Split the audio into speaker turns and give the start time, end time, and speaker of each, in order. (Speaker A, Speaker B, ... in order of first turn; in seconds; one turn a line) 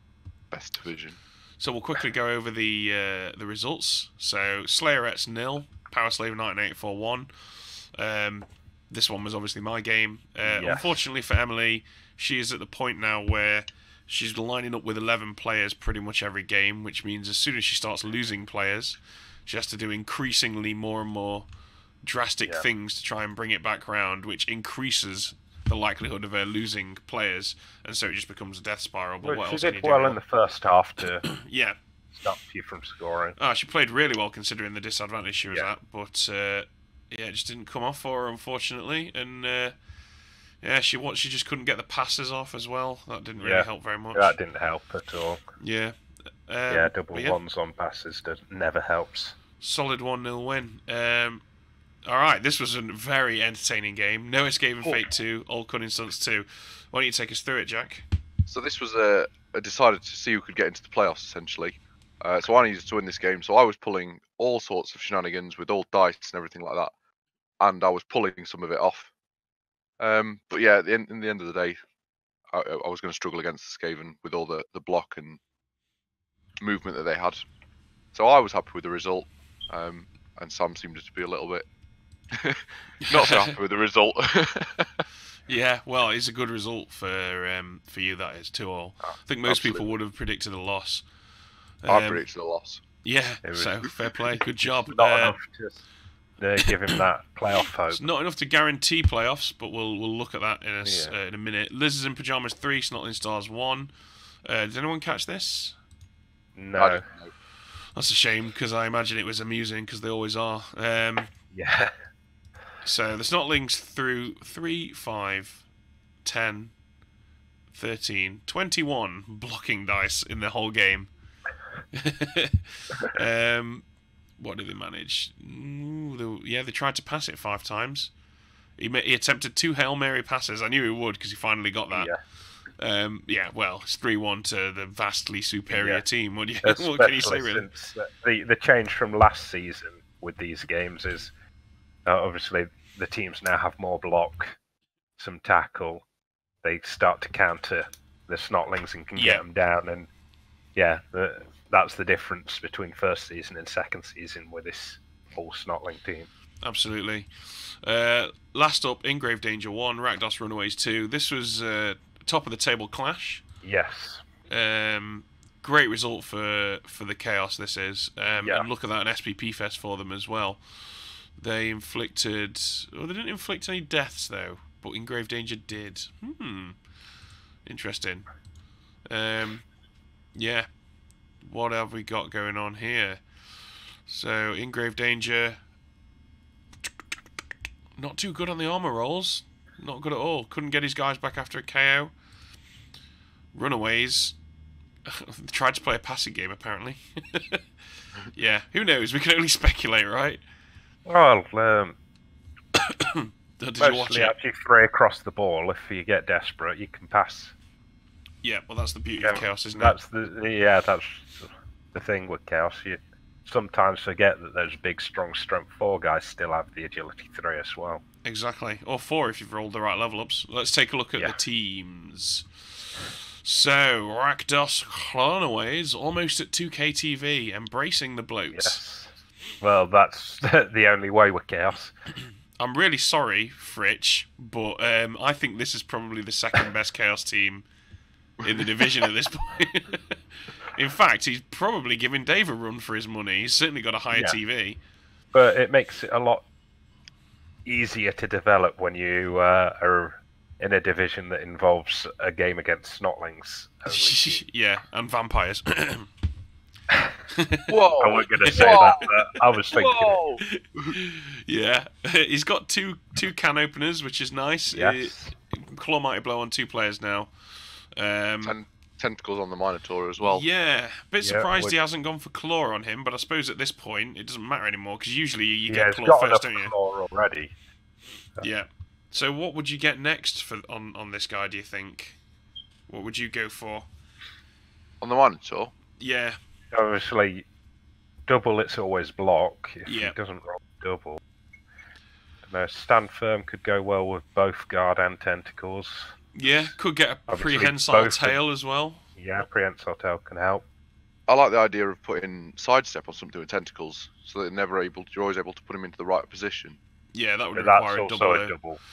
Speaker A: 0.5-1.2
Speaker B: 1.6-21.5
Speaker C: 10.4-11.0
Speaker B: 22.0-30.2
Speaker C: 29.2-31.3
Speaker B: 31.2-31.8
Speaker C: 32.1-33.4
Speaker B: 33.4-39.7
Speaker B: 40.6-44.3
Speaker C: 43.4-45.4
Speaker B: 45.6-47.4
Speaker C: 46.7-49.4
Speaker B: 49.6-51.4
Speaker B: 52.0-58.0
Speaker A: 58.5-66.9
Speaker A: 67.6-69.1
Speaker A: 70.0-71.8
Speaker A: 72.5-75.4
Speaker A: 76.6-77.4
Speaker A: 78.1-81.7
Speaker A: 82.3-85.0
Speaker B: 83.0-83.5
Speaker B: 85.5-91.0
Speaker A: 89.5-89.8
Speaker B: 91.8-92.2
Speaker A: 91.9-92.8
Speaker B: 93.0-95.3
Speaker C: 93.4-93.8
Speaker C: 94.9-95.8
Speaker C: 96.4-98.1
Speaker B: 97.9-103.9
Speaker C: 100.8-101.1
Speaker B: 104.4-105.8
Speaker C: 106.5-107.0
Speaker A: 106.8-107.3
Speaker B: 107.9-111.3
Speaker C: 111.5-111.9
Speaker B: 112.8-115.6
Speaker B: 116.2-116.7
Speaker B: 117.7-121.1
Speaker B: 121.9-123.8
Speaker B: 124.4-128.1
Speaker B: 128.8-132.1
Speaker C: 131.9-132.2
Speaker B: 132.8-137.7
Speaker C: 135.7-136.1
Speaker C: 136.6-141.3
Speaker C: 142.1-144.6
Speaker C: 145.2-146.0
Speaker C: 146.6-150.1
Speaker B: 149.2-149.4
Speaker C: 150.7-156.3
Speaker B: 156.6-163.4
Speaker C: 163.6-164.2
Speaker B: 164.5-176.8
Speaker C: 168.4-168.7
Speaker B: 177.7-178.2
Speaker B: 179.1-179.7
Speaker B: 180.3-180.7
Speaker B: 181.4-183.2
Speaker B: 184.1-185.6
Speaker B: 188.0-192.1
Speaker B: 193.5-194.4
Speaker B: 195.0-197.6
Speaker B: 198.3-200.4
Speaker C: 201.1-201.9
Speaker B: 202.7-204.3
Speaker C: 203.8-207.5
Speaker B: 208.4-210.0
Speaker C: 209.2-218.0
Speaker B: 218.2-222.5
Speaker B: 223.0-228.8
Speaker C: 228.5-231.9
Speaker B: 232.6-237.7
Speaker B: 238.4-244.8
Speaker C: 245.3-246.4
Speaker C: 247.6-254.4
Speaker B: 253.9-256.1
Speaker C: 256.9-257.1
Speaker B: 257.3-257.7
Speaker A: 257.7-259.1
Speaker C: 258.0-260.2
Speaker B: 258.4-259.4
Speaker A: 259.7-260.9
Speaker B: 260.4-267.3
Speaker C: 264.7-265.3
Speaker B: 267.9-268.5
Speaker A: 268.4-270.4
Speaker B: 270.2-276.7
Speaker C: 271.2-271.7
Speaker C: 275.7-277.5
Speaker B: 278.4-282.2
Speaker B: 282.9-283.9
Speaker A: 285.0-285.7
Speaker B: 286.0-286.4
Speaker C: 286.7-287.4
Speaker C: 288.3-291.2
Speaker B: 289.9-290.1
Speaker C: 292.4-296.7
Speaker B: 296.3-299.0
Speaker C: 297.3-298.4
Speaker C: 299.2-300.6
Speaker A: 301.3-306.8
Speaker B: 307.1-308.5
Speaker C: 307.5-308.8